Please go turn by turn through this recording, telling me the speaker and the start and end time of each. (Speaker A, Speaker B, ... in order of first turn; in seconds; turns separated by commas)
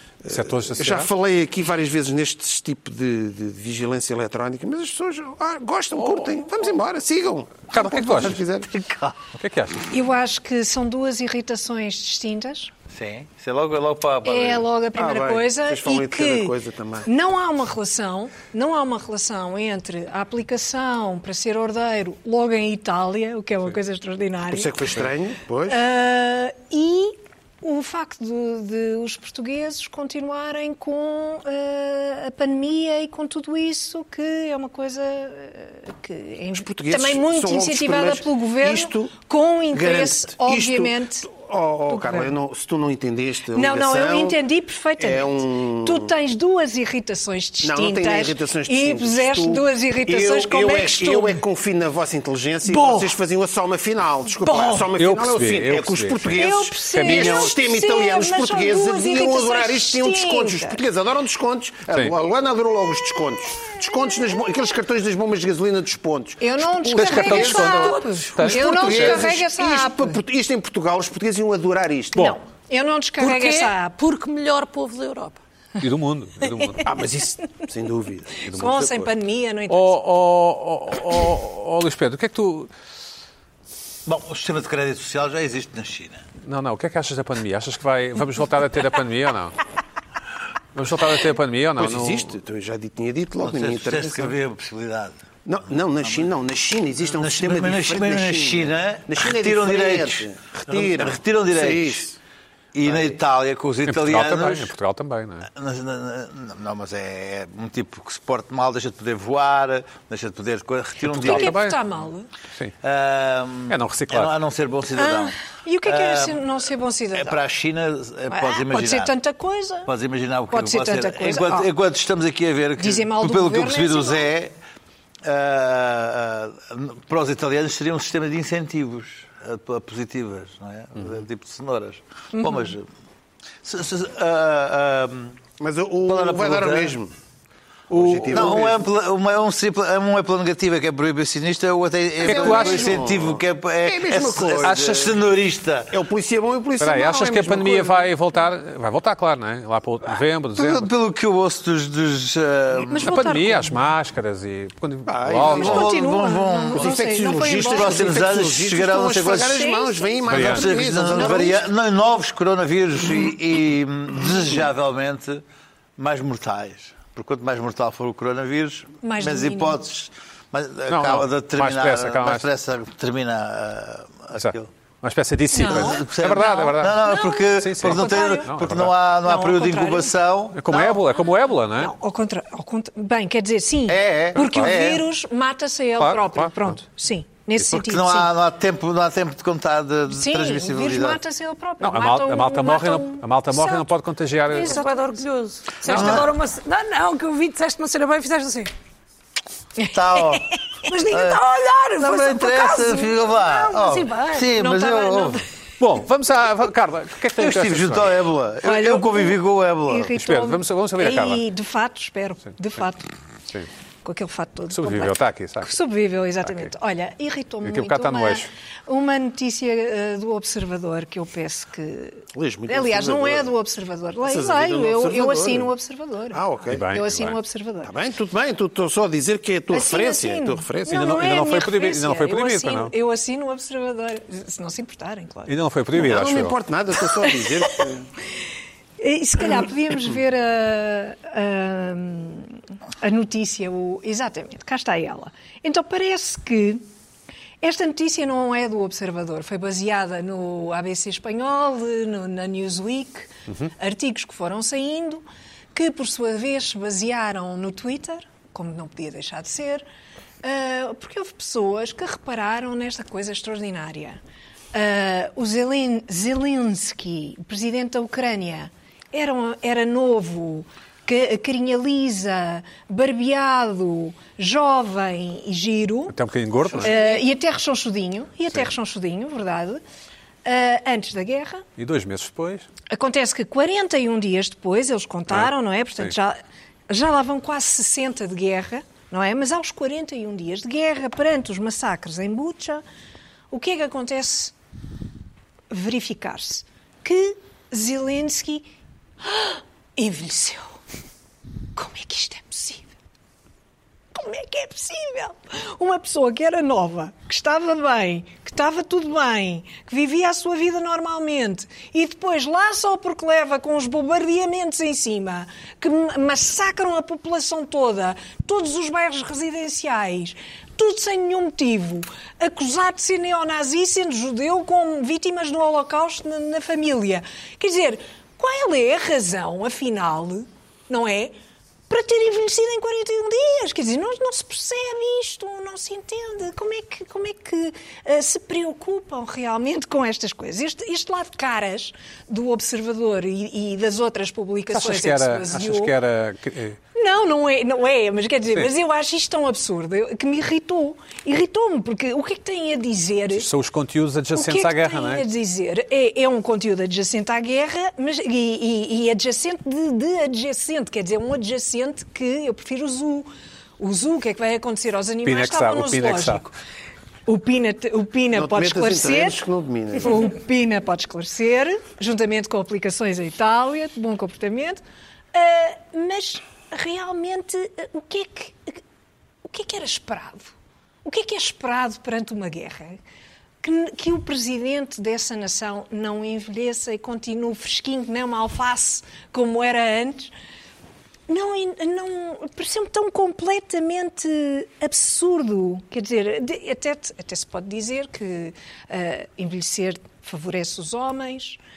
Speaker A: 0.2-8.7, Speaker B: 0.3-1.1, Speaker B: 6.0-6.2, Speaker B: 7.7-8.4, Speaker C: 8.7-9.2, Speaker B: 9.3-9.9, Speaker D: 9.9-12.7, Speaker C: 12.9-14.7, Speaker D: 14.2-24.7, Speaker A: 14.9-17.1, Speaker A: 24.5-25.8, Speaker D: 25.7-41.3, Speaker A: 36.6-39.2, Speaker A: 39.7-44.4, Speaker D: 41.9-42.3, Speaker D: 43.5-51.4, Speaker A: 45.0-46.1, Speaker A: 47.6-72.3, Speaker D: 52.8-53.0, Speaker D: 54.5-54.8, Speaker B: 54.9-57.5, Speaker D: 56.4-60.8, Speaker D: 66.4-70.2, Speaker B: 66.8-69.2, Speaker D: 72.2-74.0, Speaker E: 73.2-75.4, Speaker B: 75.8-76.9, Speaker A: 76.8-79.1, Speaker D: 78.4-80.0, Speaker B: 79.7-82.7, Speaker C: 84.0-86.2, Speaker B: 86.4-89.5, Speaker B: 90.7-92.3, Speaker A: 91.8-94.4, Speaker C: 93.4-95.2, Speaker A: 95.4-102.2, Speaker C: 97.1-102.0, Speaker C: 102.7-104.7, Speaker A: 102.8-103.2, Speaker B: 103.8-105.5, Speaker C: 105.5-111.6, Speaker B: 111.1-111.8, Speaker D: 111.2-112.3, Speaker C: 112.8-116.4, Speaker B: 113.7-114.3, Speaker D: 114.9-117.4, Speaker C: 117.1-119.1, Speaker D: 118.3-119.9, Speaker C: 119.8-124.5, Speaker D: 120.5-121.7, Speaker D: 122.8-124.3, Speaker C: 125.2-132.9, Speaker D: 132.3-132.7, Speaker C: 133.6-135.4, Speaker A: 135.6-137.1, Speaker C: 136.1-136.9, Speaker B: 137.9-138.7, Speaker A: 137.9-138.9, Speaker C: 138.2-145.9, Speaker A: 142.2-145.2, Speaker B: 142.2-143.0, Speaker B: 144.6-145.0, Speaker A: 145.9-148.1, Speaker B: 146.8-150.9, Speaker C: 150.6-153.1, Speaker D: 152.9-153.8, Speaker B: 152.9-155.9, Speaker A: 155.1-155.9, Speaker C: 155.4-159.7, Speaker D: 155.5-158.2, Speaker A: 156.7-161.6, Speaker D: 159.5-160.5, Speaker B: 160.3-160.7, Speaker C: 160.3-165.4, Speaker D: 161.0-161.6, Speaker C: 166.0-174.7, Speaker D: 169.0-169.8, Speaker B: 170.9-172.5, Speaker B: 174.3-178.9, Speaker D: 175.5-178.6, Speaker C: 175.6-180.6, Speaker D: 179.2-180.1, Speaker B: 180.5-181.9, Speaker D: 180.7-181.0, Speaker D: 181.8-188.3, Speaker C: 183.9-185.0, Speaker B: 184.3-184.8, Speaker B: 186.0-186.8, Speaker C: 187.7-191.2, Speaker D: 190.1-193.9, Speaker B: 191.8-194.8, Speaker D: 194.5-195.2, Speaker E: 194.5-198.7, Speaker C: 195.8-196.3, Speaker D: 195.9-196.2, Speaker D: 199.8-203.2, Speaker C: 199.9-201.4, Speaker C: 202.0-205.4, Speaker E: 202.8-204.6, Speaker D: 204.5-205.4, Speaker B: 205.8-208.2, Speaker C: 207.4-210.1, Speaker D: 208.6-213.1, Speaker B: 210.1-211.4, Speaker D: 214.0-227.9, Speaker B: 214.7-215.7, Speaker B: 216.4-216.7, Speaker B: 217.6-218.5, Speaker A: 222.3-223.5, Speaker A: 224.2-225.7, Speaker A: 226.3-226.8, Speaker B: 226.7-227.4, Speaker A: 227.8-231.2, Speaker D: 229.7-235.5, Speaker B: 230.9-232.9, Speaker B: 235.5-236.5, Speaker A: 235.9-238.1, Speaker D: 237.2-237.8, Speaker D: 239.0-246.8, Speaker D: 247.6-259.9, Speaker D: 260.4-264.2, Speaker D: 264.7-276.1, Speaker B: 276.1-277.0, Speaker D: 276.7-279.8, Speaker D: 280.4-281.6, Speaker B: 281.8-282.7, Speaker D: 282.9-292.8, Speaker B: 285.3-286.1, Speaker D: 293.5-294.5, Speaker D: 295.7-298.7, Speaker D: 299.2-300.8, Speaker D: 301.7-302.9, Speaker D: 304.1-331.3, Speaker D: 331.9-345.9, Speaker B: 344.7-346.8, Speaker D: 346.9-353.5, Speaker B: 353.3-355.3, Speaker D: 354.3-366.5, Speaker B: 365.2-366.4, Speaker D: 367.2-369.4, Speaker A: 368.3-370.3, Speaker D: 370.0-374.8, Speaker D: 375.3-378.8, Speaker D: 379.4-383.0, Speaker D: 383.6-390.3, Speaker D: 391.3-401.6